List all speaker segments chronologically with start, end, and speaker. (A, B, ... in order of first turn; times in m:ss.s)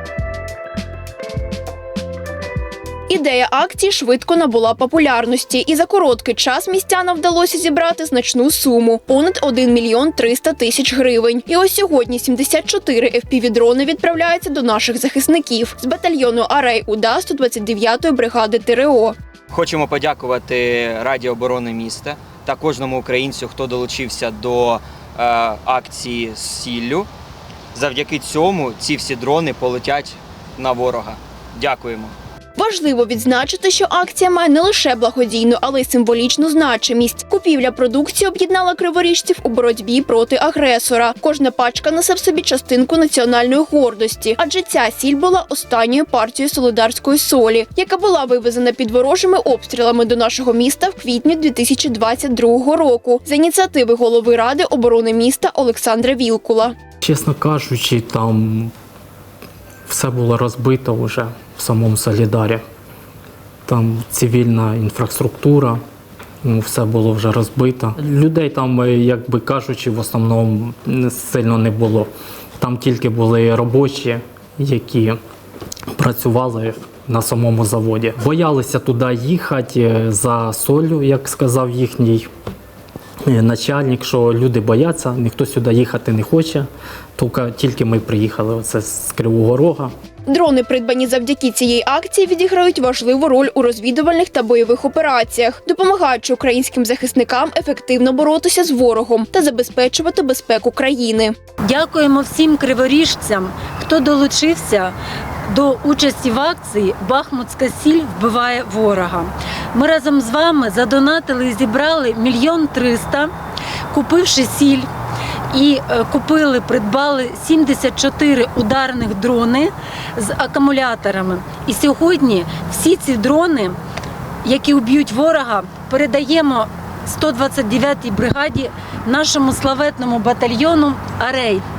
0:03.1-0:19.1 A
0:19.5-0:27.1 B
0:27.7-0:32.2 B
0:32.6-0:56.8 A
0:57.0-0:58.7 C
0:59.9-1:02.6 C
1:03.7-1:05.8 C
1:06.4-1:15.2 C
1:15.9-1:22.3 C
1:23.3-1:29.9 C
1:30.3-1:41.3 A
1:41.6-1:44.9 D
1:45.5-1:53.3 D
1:53.9-1:54.9 D
1:55.5-2:03.8 D
2:04.4-2:11.6 D